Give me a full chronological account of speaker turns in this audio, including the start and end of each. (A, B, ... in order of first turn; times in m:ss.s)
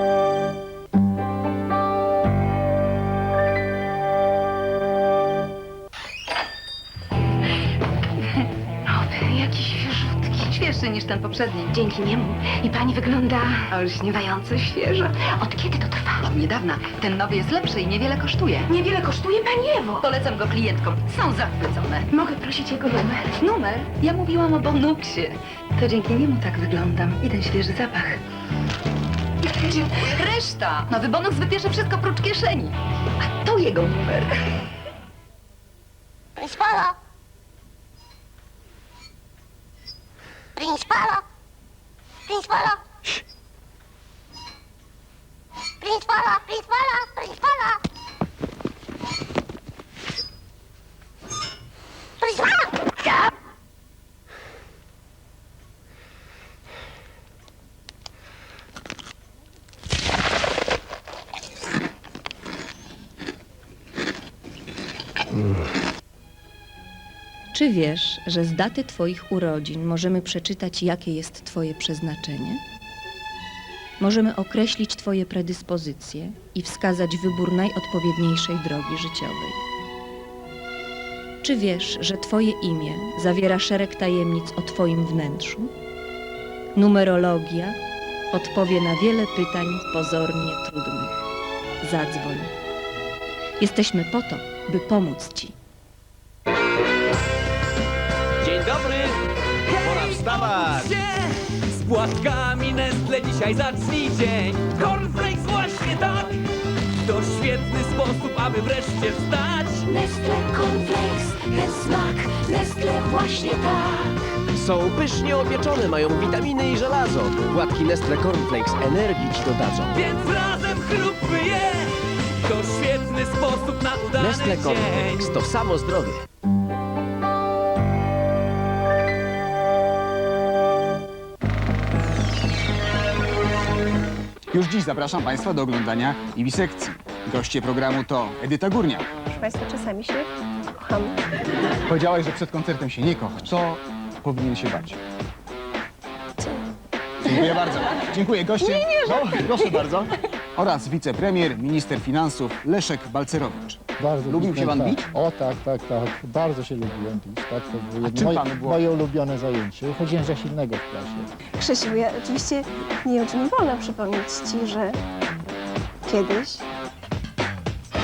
0:08.9-0:22.2 A
0:23.2-0:28.2 A
0:29.6-0:34.4 A
0:36.4-0:36.9 B
0:40.6-0:41.2 B
0:42.3-0:42.8 B
0:45.8-0:47.6 B
1:07.5-1:12.6 C
1:14.0-1:19.6 C
1:21.4-1:25.7 C
1:26.8-1:27.8 C
1:28.3-1:31.1 C
1:31.8-1:32.5 C
1:33.6-1:35.5 C
1:38.4-1:39.2 D
1:39.7-1:46.4 D
1:47.0-1:50.0 D
1:51.4-1:53.7 D
1:54.6-1:59.9 E
1:59.9-2:05.4 D
2:04.2-2:06.2 E
2:14.5-2:19.1 F
2:19.3-2:21.1 G
2:21.8-2:25.0 F
2:27.2-2:35.1 F
2:27.3-2:27.6 G
2:28.6-2:29.9 G
2:34.0-2:41.3 H
2:38.0-2:38.9 F
2:41.6-2:45.0 G
2:46.1-2:46.6 G